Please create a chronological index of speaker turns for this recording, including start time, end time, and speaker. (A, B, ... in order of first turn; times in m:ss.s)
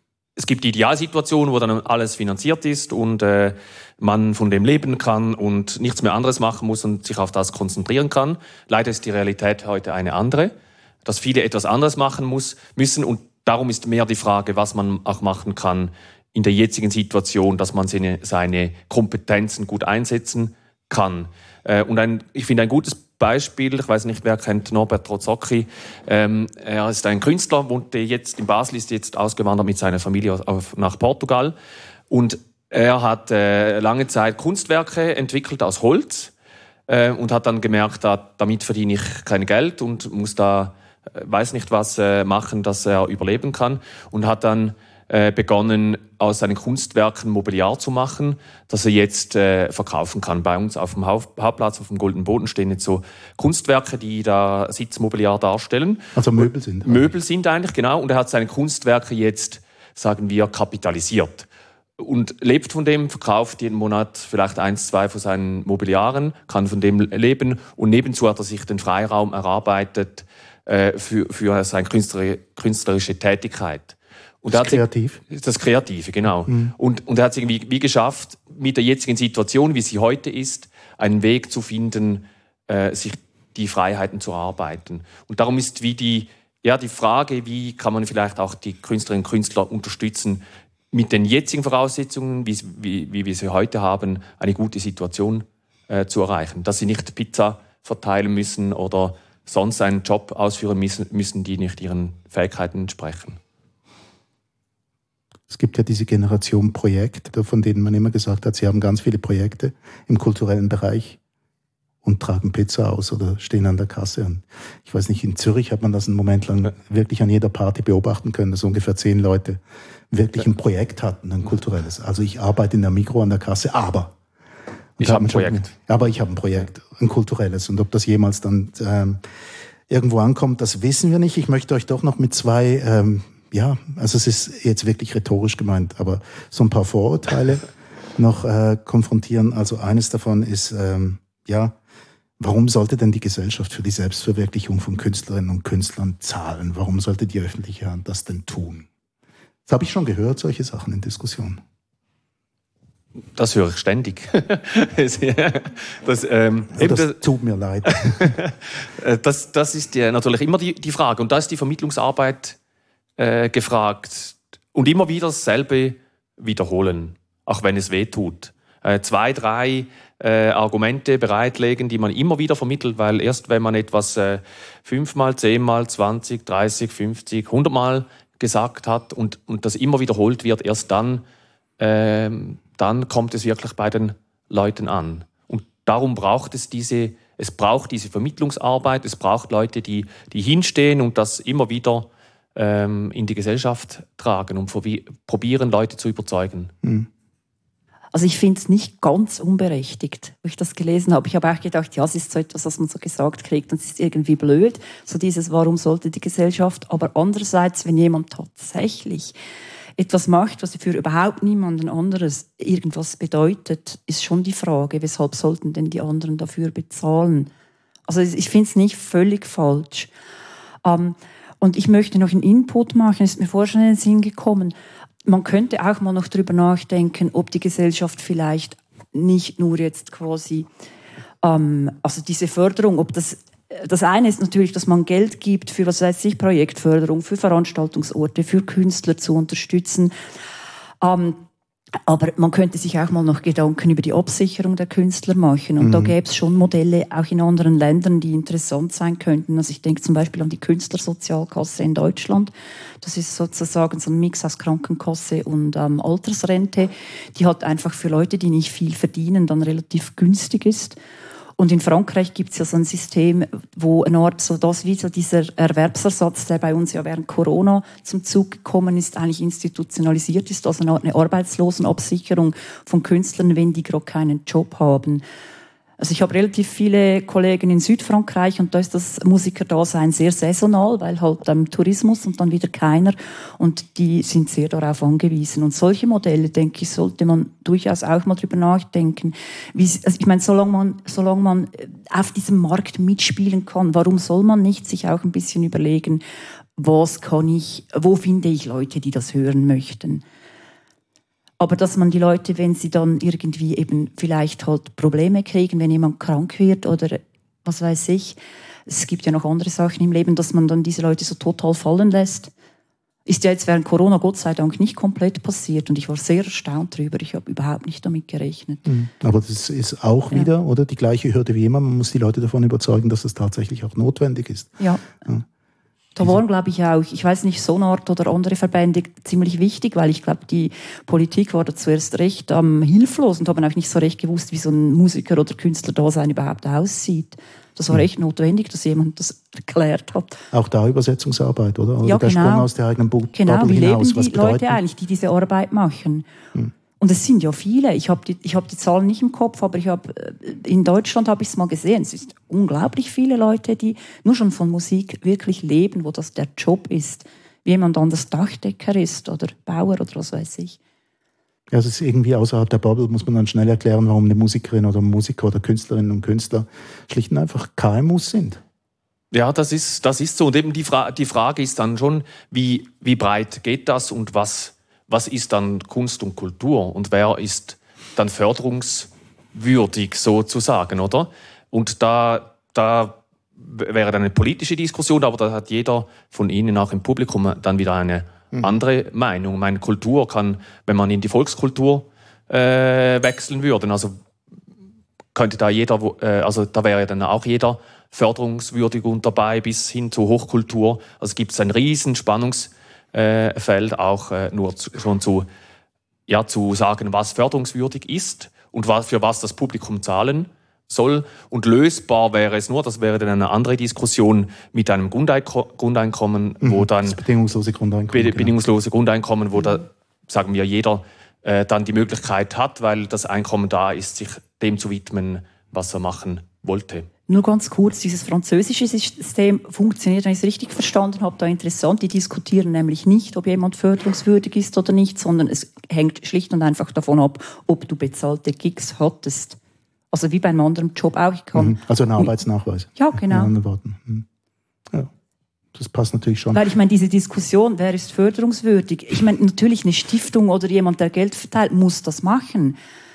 0:00.4-0:10.5 A
0:11.0-0:31.6 A
0:32.1-0:36.3 A
0:36.9-1:01.5 A
0:56.2-0:57.1 B
1:02.0-1:43.4 A
1:14.5-1:15.2 B
1:16.5-1:16.7 B
1:45.5-1:51.2 B
1:52.0-1:59.6 B
2:00.1-2:04.2 B
2:05.0-2:09.2 B
2:05.0-2:05.7 A
2:09.9-2:17.7 B
2:18.2-2:21.8 B
2:22.4-2:28.9 B
2:29.7-2:31.6 B
2:33.4-2:37.2 A
2:36.8-2:38.4 B
2:37.9-2:42.6 A
2:43.2-3:01.2 A
3:01.8-3:16.7 A
3:16.8-3:17.1 B
3:18.1-3:29.4 C
3:30.0-3:37.5 C
3:38.1-3:40.1 C
3:40.8-3:44.7 C
3:45.3-3:50.7 C
3:51.4-4:00.1 C
4:01.0-4:01.4 C
4:02.1-4:21.0 C
4:05.8-4:06.1 B
4:21.6-4:35.2 C
4:36.0-4:56.2 C
4:56.8-5:00.2 C
5:01.6-5:12.5 C
5:13.3-5:18.9 C
5:18.9-5:25.4 B
5:24.8-5:25.0 C
5:26.2-5:40.4 C
5:40.5-5:44.8 B
5:42.0-5:42.7 C
5:43.4-5:46.3 C
5:47.0-6:00.8 C
6:01.7-6:08.6 B
6:09.3-6:34.2 A
6:35.3-6:45.5 A
6:46.3-6:57.2 A
6:56.6-6:58.5 B
6:58.1-7:07.1 A
7:07.3-7:19.6 C
7:20.1-7:22.3 C
7:21.6-7:24.3 B
7:23.0-7:23.5 C
7:25.7-7:26.6 B
7:26.5-7:32.8 C